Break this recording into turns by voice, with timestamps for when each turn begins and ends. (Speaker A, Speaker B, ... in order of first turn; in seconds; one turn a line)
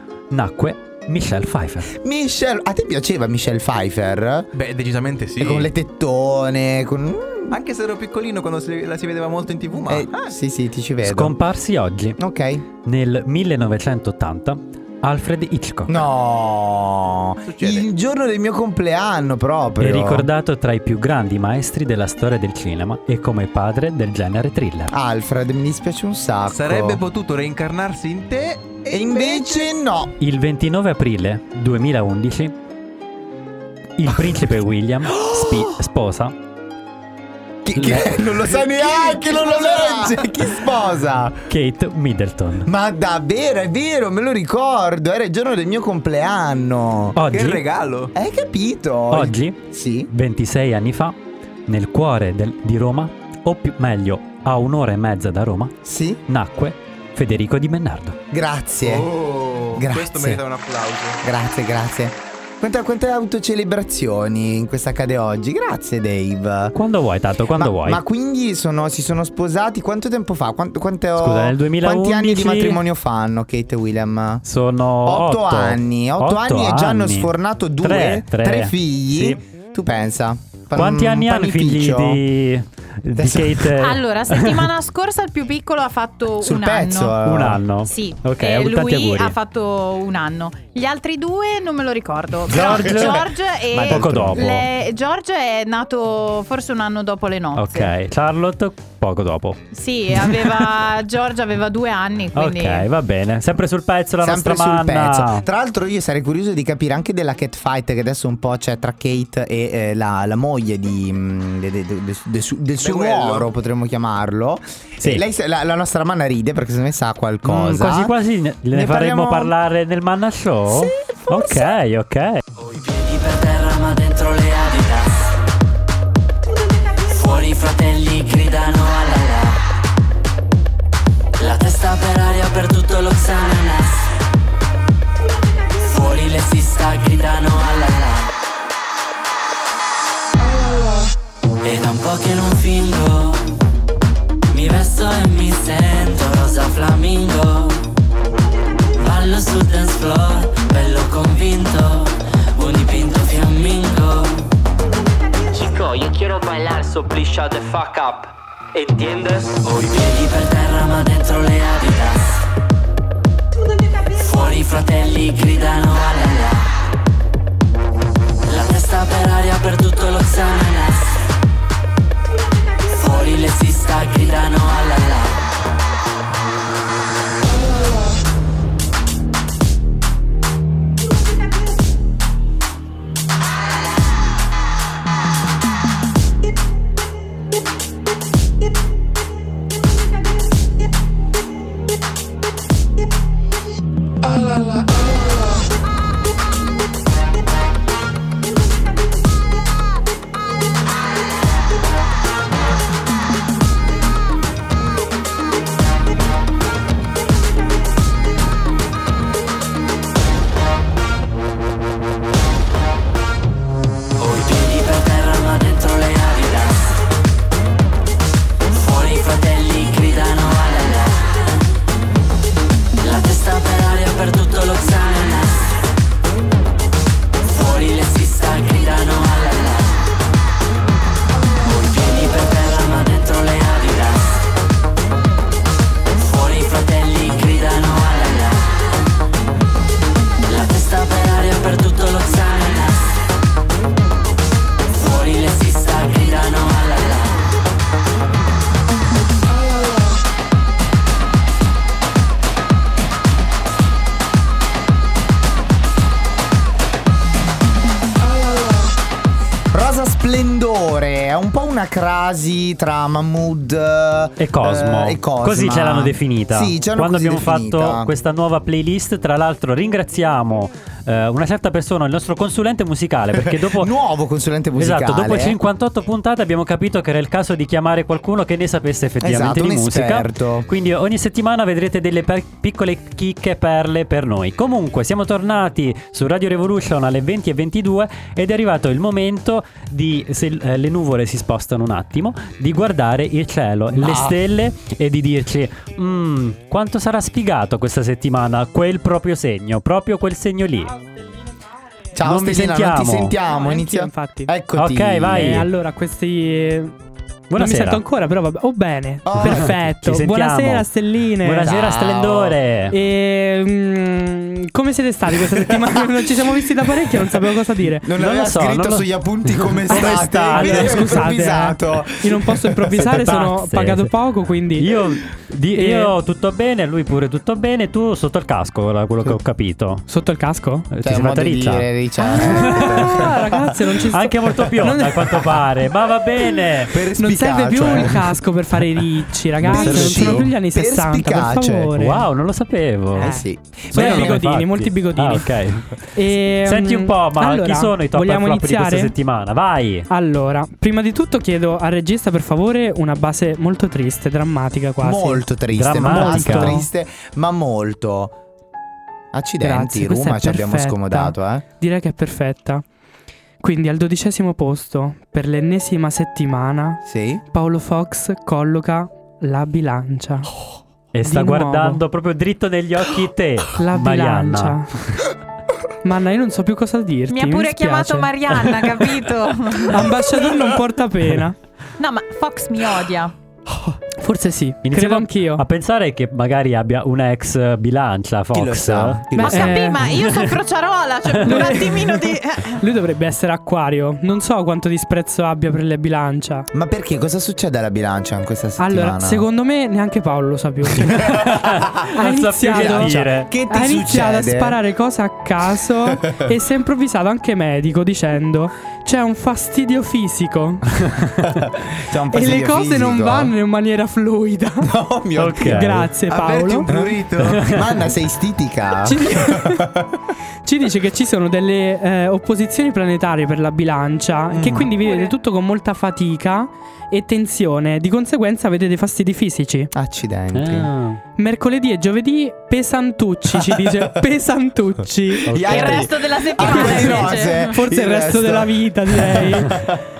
Speaker A: 0.3-1.9
Speaker B: 1.9-4.5
Speaker C: 4.5-5.7
Speaker B: 5.4-7.5
Speaker C: 7.5-10.1
Speaker B: 9.9-11.3
Speaker A: 11.0-12.2
Speaker B: 12.2-12.6
Speaker A: 12.8-16.0
Speaker B: 15.9-20.3
Speaker C: 17.5-17.9
Speaker A: 19.8-24.9
Speaker B: 24.9-27.0
Speaker C: 26.5-29.7
Speaker B: 28.9-30.1
Speaker A: 30.2-32.5
Speaker A: 34.0-36.3
Speaker B: 37.6-41.4
Speaker A: 37.8-38.2
Speaker C: 38.4-40.2
Speaker A: 41.5-42.7
Speaker B: 42.6-47.2
Speaker A: 47.1-47.6
Speaker C: 47.3-48.1
Speaker B: 48.1-50.1
Speaker A: 49.1-49.6
Speaker A: 50.1-55.7
Speaker B: 55.8-56.2
Speaker A: 56.3-58.2
Speaker B: 58.3-59.1
Speaker C: 58.8-61.2
Speaker B: 59.7-60.4
Speaker B: 61.2-66.7
Speaker A: 66.7-68.0
Speaker B: 67.5-74.4
Speaker A: 71.2-72.8
Speaker A: 74.4-77.3
Speaker B: 75.0-82.2
Speaker A: 77.8-79.4
Speaker A: 80.7-84.7
Speaker B: 83.2-83.7
Speaker D: 83.8-87.2
Speaker B: 86.4-87.6
Speaker A: 87.2-89.3
Speaker D: 87.8-97.9
Speaker A: 92.5-93.2
Speaker B: 92.5-94.5
Speaker A: 93.9-94.7
Speaker A: 97.5-99.6
Speaker D: 99.7-102.9
Speaker A: 100.2-100.5
Speaker A: 102.3-105.5
Speaker B: 104.2-118.1
Speaker C: 112.8-113.5
Speaker A: 117.4-122.4
Speaker B: 118.7-119.5
Speaker B: 120.7-121.7
Speaker E: 122.6-125.3
Speaker E: 127.1-129.6
Speaker E: 131.4-134.1
Speaker E: 135.8-138.3
Speaker E: 141.6-143.5
Speaker E: 144.5-147.9
Speaker E: 148.9-154.5
Speaker E: 155.6-158.0
Speaker E: 158.9-162.4
Speaker E: 164.2-166.7
Speaker E: 168.5-171.2
Speaker E: 172.9-175.4
Speaker E: 214.2-216.9
Speaker E: 218.7-221.4
Speaker E: 223.0-225.8
Speaker E: 227.4-230.0
Speaker E: 231.6-234.4
Speaker E: 236.2-238.8
Speaker E: 240.4-243.2
Speaker E: 244.9-247.4
Speaker B: 259.7-268.1
Speaker A: 264.4-273.9
Speaker B: 273.3-275.6
Speaker A: 274.8-300.9
Speaker B: 279.2-280.7
Speaker B: 293.9-294.4
Speaker B: 302.1-305.5
Speaker A: 302.2-303.4
Speaker F: 303.4-304.5
Speaker A: 304.8-305.6
Speaker F: 305.3-306.9
Speaker A: 307.5-308.0
Speaker F: 307.6-311.7
Speaker B: 309.2-309.7
Speaker A: 309.4-310.9
Speaker A: 311.4-312.9
Speaker B: 311.6-312.6
Speaker F: 312.9-318.1
Speaker B: 318.0-323.0
Speaker A: 318.1-321.3
Speaker F: 319.9-324.9
Speaker A: 323.0-324.1
Speaker A: 324.8-330.1
Speaker F: 325.8-326.1
Speaker F: 330.1-330.9
Speaker A: 330.9-333.3
Speaker B: 331.0-333.7
Speaker F: 332.2-335.5
Speaker A: 334.1-337.0
Speaker B: 336.9-338.3
Speaker F: 337.1-342.2
Speaker A: 337.7-338.1
Speaker A: 339.6-340.5
Speaker B: 339.6-341.9
Speaker A: 342.0-343.4
Speaker B: 343.2-344.4
Speaker F: 343.2-345.6
Speaker A: 343.9-345.9
Speaker F: 346.1-349.1
Speaker A: 346.6-350.1
Speaker F: 350.1-355.4
Speaker B: 355.0-358.3
Speaker A: 355.7-356.8
Speaker F: 356.0-356.9
Speaker B: 359.3-361.6
Speaker F: 359.6-362.8
Speaker F: 363.6-370.5
Speaker B: 367.0-367.4
Speaker A: 371.1-374.8
Speaker F: 371.2-372.0
Speaker F: 373.8-374.9
Speaker F: 376.0-378.3
Speaker D: 377.3-380.2
Speaker F: 379.9-381.5
Speaker D: 382.0-383.3
Speaker F: 384.2-385.6
Speaker A: 384.8-389.5
Speaker B: 388.5-389.8
Speaker F: 389.4-390.1
Speaker D: 389.4-392.8
Speaker A: 390.1-390.5
Speaker F: 391.4-396.7
Speaker B: 396.7-399.4
Speaker F: 398.8-401.3
Speaker A: 401.1-403.5
Speaker F: 402.1-403.1
Speaker B: 402.6-404.8
Speaker F: 403.7-410.8
Speaker B: 411.9-413.5
Speaker F: 412.3-414.9
Speaker B: 414.8-420.0
Speaker A: 415.4-416.1
Speaker F: 415.6-416.9
Speaker C: 416.6-417.3
Speaker A: 417.4-417.9
Speaker F: 419.0-419.9
Speaker F: 420.6-429.9
Speaker B: 424.5-424.9
Speaker B: 429.9-430.9
Speaker A: 430.5-431.2
Speaker F: 431.4-435.5
Speaker B: 433.5-433.9
Speaker A: 435.4-436.1
Speaker B: 435.5-439.9
Speaker D: 435.7-437.8
Speaker F: 436.6-439.9